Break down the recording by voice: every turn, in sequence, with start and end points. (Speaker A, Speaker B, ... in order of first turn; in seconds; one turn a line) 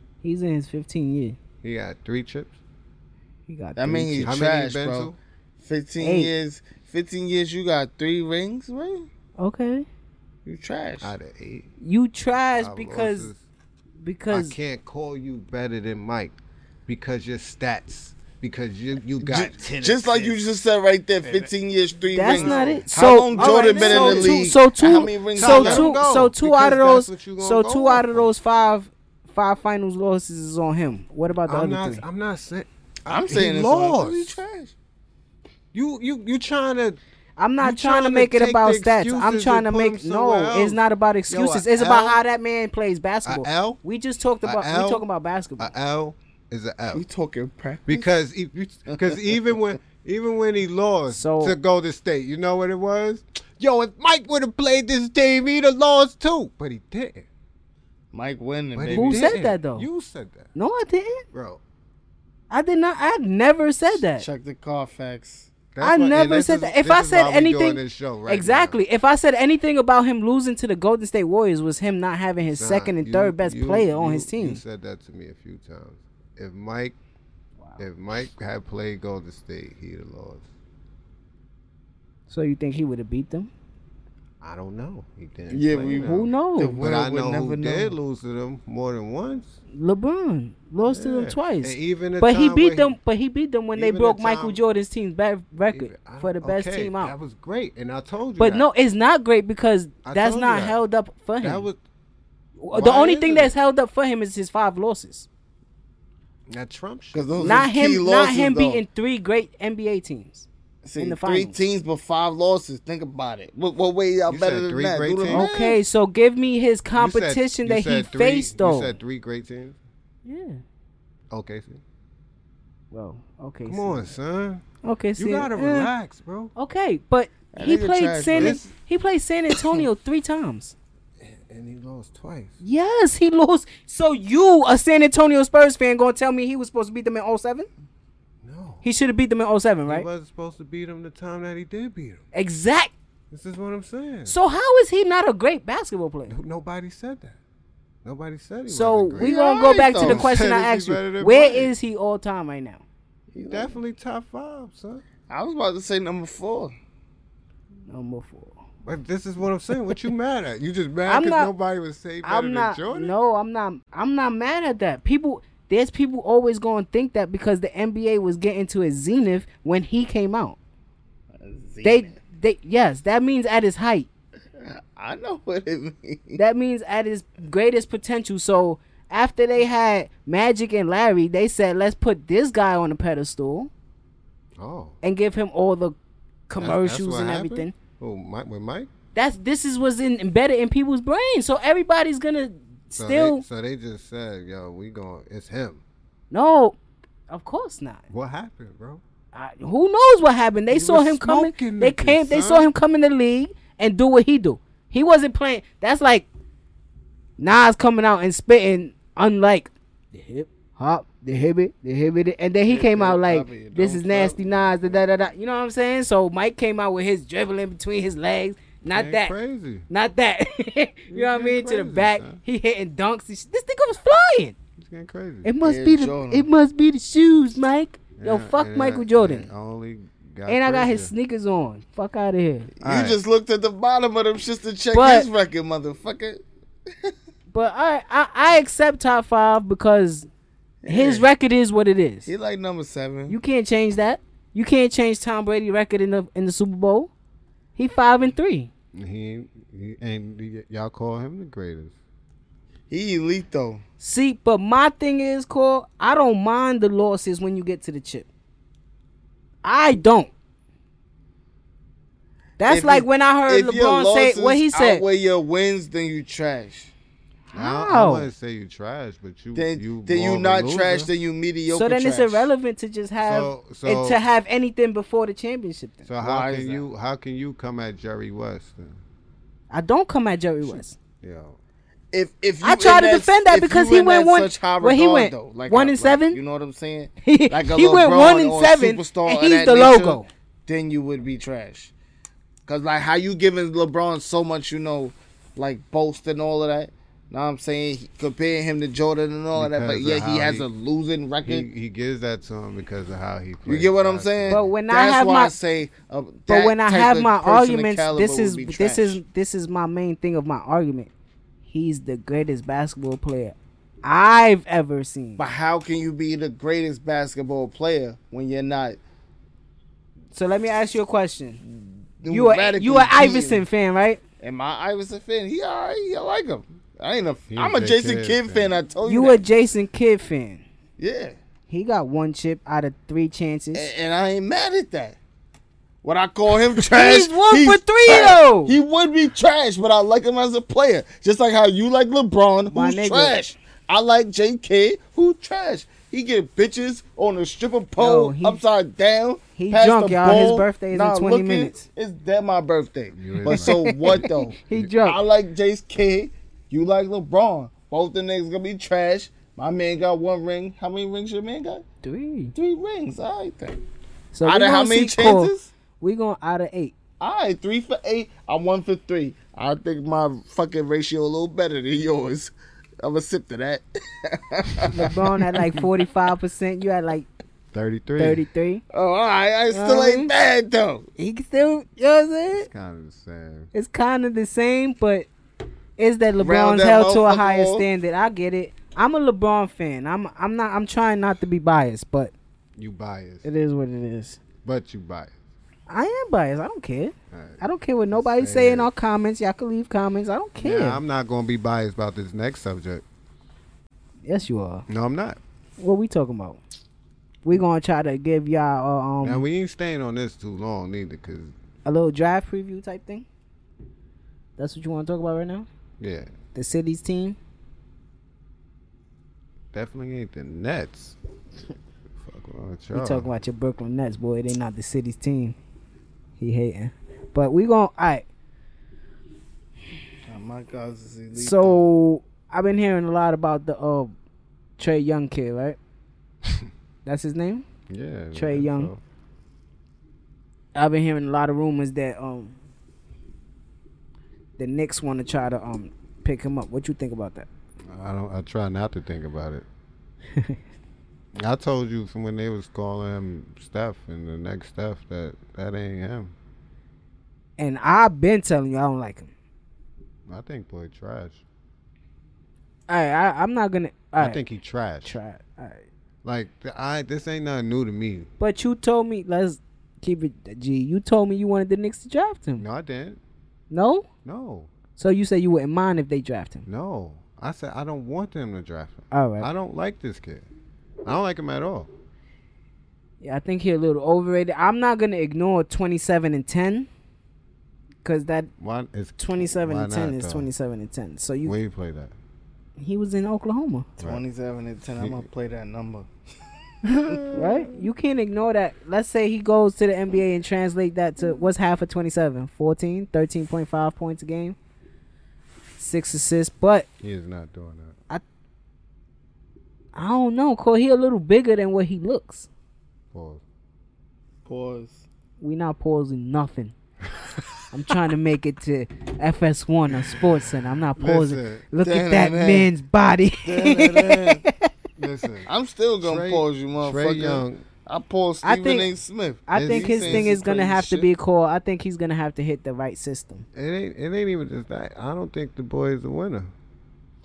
Speaker A: 0.2-1.4
Speaker B: 1.6-2.6
Speaker A: 3.5-4.3
Speaker C: 3.8-9.1
Speaker B: 4.2-5.2
Speaker A: 6.0-6.3
Speaker A: 9.4-9.8
Speaker C: 10.4-11.1
Speaker B: 11.0-11.7
Speaker A: 11.8-13.3
Speaker B: 12.5-13.4
Speaker A: 14.0-14.6
Speaker B: 14.3-16.4
Speaker B: 16.9-20.4
Speaker C: 19.2-25.9
Speaker A: 22.1-32.0
Speaker B: 22.3-24.4
Speaker B: 25.4-28.3
Speaker B: 31.5-34.4
Speaker C: 33.1-34.7
Speaker B: 35.7-37.0
Speaker A: 37.4-45.7
Speaker B: 37.6-42.2
Speaker B: 43.2-43.8
Speaker B: 44.4-45.0
Speaker B: 45.6-47.0
Speaker C: 46.9-48.0
Speaker B: 47.9-57.3
Speaker C: 48.9-49.2
Speaker A: 51.1-51.5
Speaker C: 58.1-59.4
Speaker B: 58.7-60.5
Speaker A: 58.9-59.9
Speaker A: 60.5-61.2
Speaker B: 61.3-61.6
Speaker A: 62.5-64.2
Speaker C: 64.0-65.5
Speaker B: 65.7-68.8
Speaker A: 65.8-74.6
Speaker B: 72.5-77.0
Speaker B: 77.8-80.5
Speaker A: 82.3-83.5
Speaker B: 84.4-89.5
Speaker C: 85.5-87.9
Speaker A: 86.0-86.8
Speaker A: 89.7-97.1
Speaker B: 90.9-93.0
Speaker B: 93.8-94.6
Speaker B: 95.7-98.7
Speaker A: 98.4-101.7
Speaker B: 100.0-100.8
Speaker B: 101.4-101.8
Speaker A: 102.6-105.3
Speaker B: 102.7-103.5
Speaker B: 106.5-107.7
Speaker C: 107.1-108.8
Speaker A: 107.4-110.5
Speaker C: 110.8-115.8
Speaker A: 111.0-111.6
Speaker B: 114.3-115.5
Speaker A: 115.3-118.9
Speaker B: 116.9-119.8
Speaker A: 120.2-120.6
Speaker B: 121.3-121.8
Speaker A: 122.9-124.1
Speaker B: 123.7-124.6
Speaker A: 124.8-125.9
Speaker B: 125.2-126.5
Speaker A: 126.5-130.7
Speaker C: 127.5-128.6
Speaker B: 128.3-128.7
Speaker B: 131.2-132.6
Speaker A: 132.6-137.7
Speaker B: 138.4-138.8
Speaker A: 138.8-140.1
Speaker B: 139.8-142.2
Speaker A: 142.3-142.9
Speaker B: 143.3-144.3
Speaker A: 144.3-146.3
Speaker B: 146.3-147.4
Speaker B: 148.0-149.3
Speaker A: 148.7-152.8
Speaker C: 149.2-150.3
Speaker B: 149.9-151.7
Speaker C: 153.3-153.8
Speaker B: 153.5-155.0
Speaker C: 155.3-156.7
Speaker A: 157.9-158.6
Speaker B: 158.8-163.1
Speaker A: 161.1-161.5
Speaker A: 162.2-170.6
Speaker C: 171.4-172.2
Speaker A: 171.8-174.1
Speaker C: 174.6-176.4
Speaker A: 176.4-183.7
Speaker B: 184.6-184.9
Speaker A: 185.0-185.9
Speaker A: 186.5-187.7
Speaker B: 186.6-188.9
Speaker A: 189.1-193.4
Speaker B: 192.9-195.8
Speaker A: 196.3-196.8
Speaker A: 197.3-198.0
Speaker B: 198.1-199.0
Speaker A: 199.3-206.3
Speaker B: 200.7-202.7
Speaker A: 207.4-219.3
Speaker C: 212.7-214.6
Speaker B: 218.9-219.9
Speaker A: 219.9-224.5
Speaker B: 221.1-222.4
Speaker B: 224.8-225.5
Speaker A: 225.4-229.5
Speaker C: 225.6-226.5
Speaker B: 228.2-231.1
Speaker A: 230.5-232.7
Speaker C: 232.8-236.4
Speaker B: 232.8-233.2
Speaker A: 234.9-235.3
Speaker A: 237.5-240.3
Speaker C: 240.8-241.3
Speaker A: 240.9-242.3
Speaker C: 242.2-243.4
Speaker A: 243.3-247.1
Speaker A: 247.8-248.7
Speaker B: 248.9-251.9
Speaker C: 252.9-253.8
Speaker A: 254.0-258.3
Speaker A: 259.6-260.3
Speaker A: 262.6-265.0
Speaker C: 262.7-266.9
Speaker A: 267.5-268.3
Speaker B: 267.5-271.1
Speaker C: 269.5-272.5
Speaker A: 271.7-276.0
Speaker B: 273.2-274.2
Speaker B: 276.1-279.0
Speaker C: 276.2-276.8
Speaker A: 279.7-280.9
Speaker B: 280.6-281.6
Speaker C: 282.1-291.9
Speaker A: 282.6-286.4
Speaker A: 287.2-290.3
Speaker C: 292.7-301.7
Speaker B: 299.5-300.7
Speaker B: 301.4-304.6
Speaker C: 303.7-309.2
Speaker A: 304.5-305.5
Speaker A: 306.5-311.1
Speaker A: 311.6-315.4
Speaker C: 315.4-319.0
Speaker A: 320.3-321.6
Speaker C: 321.6-323.6
Speaker A: 322.3-324.2
Speaker C: 324.4-329.4
Speaker B: 327.5-328.7
Speaker A: 329.0-330.6
Speaker C: 331.0-331.4
Speaker A: 331.7-333.9
Speaker C: 333.7-335.2
Speaker C: 336.0-361.8
Speaker A: 336.8-338.7
Speaker A: 342.7-343.4
Speaker A: 348.0-348.6
Speaker A: 349.6-351.8
Speaker B: 353.1-354.9
Speaker A: 353.4-355.2
Speaker A: 362.0-362.5
Speaker C: 362.5-363.8
Speaker A: 364.3-366.9
Speaker C: 364.4-365.7
Speaker C: 367.2-375.8
Speaker A: 374.9-377.2
Speaker B: 377.7-378.4
Speaker A: 378.2-378.8
Speaker C: 378.9-381.1
Speaker A: 379.7-380.3
Speaker A: 381.2-382.7
Speaker B: 382.5-383.7
Speaker A: 383.7-385.3
Speaker A: 386.0-392.3
Speaker C: 386.4-387.9
Speaker B: 392.8-393.5
Speaker A: 393.4-394.4
Speaker B: 394.6-395.3
Speaker A: 395.9-401.0
Speaker B: 397.3-397.6
Speaker B: 398.1-398.9
Speaker B: 400.6-403.0
Speaker A: 404.2-404.8
Speaker B: 404.9-405.4
Speaker A: 405.8-406.6
Speaker A: 407.4-409.4
Speaker B: 409.2-411.5
Speaker A: 411.8-413.2
Speaker A: 414.6-415.7
Speaker B: 416.0-416.3
Speaker A: 416.5-417.4
Speaker B: 419.7-421.2
Speaker B: 422.2-423.3
Speaker A: 422.9-425.6
Speaker A: 426.4-428.2
Speaker C: 430.3-431.9
Speaker A: 431.3-434.1
Speaker A: 434.8-435.8
Speaker A: 437.0-437.6
Speaker B: 437.9-439.0
Speaker A: 438.3-438.9
Speaker A: 440.7-442.5
Speaker A: 444.6-447.5
Speaker B: 447.9-449.6
Speaker B: 451.4-456.3
Speaker A: 457.6-459.3
Speaker B: 460.3-461.4
Speaker A: 462.9-464.4
Speaker B: 464.2-465.2
Speaker A: 465.0-465.8
Speaker B: 466.2-468.3
Speaker A: 468.4-472.6
Speaker B: 472.6-473.2
Speaker A: 473.7-474.1
Speaker B: 474.2-474.7
Speaker A: 475.0-476.6
Speaker B: 476.7-480.4
Speaker A: 479.1-479.5
Speaker B: 481.0-481.9
Speaker A: 483.2-486.9
Speaker A: 488.0-488.5
Speaker B: 488.6-490.5
Speaker A: 489.2-491.5
Speaker B: 491.4-492.1
Speaker A: 492.8-493.9
Speaker C: 494.0-496.1
Speaker B: 495.0-495.3
Speaker B: 496.8-497.8
Speaker A: 497.3-504.6
Speaker A: 505.8-506.9
Speaker B: 507.0-507.9
Speaker A: 509.9-512.5
Speaker B: 513.1-513.4
Speaker C: 514.5-515.0
Speaker A: 515.4-516.7
Speaker A: 517.7-524.7
Speaker B: 521.0-521.6
Speaker C: 521.8-522.7
Speaker C: 523.4-524.4
Speaker B: 525.0-525.5
Speaker C: 525.5-531.1
Speaker B: 526.0-527.6
Speaker A: 528.4-528.9
Speaker A: 529.5-533.4
Speaker B: 529.5-530.3
Speaker B: 533.5-536.5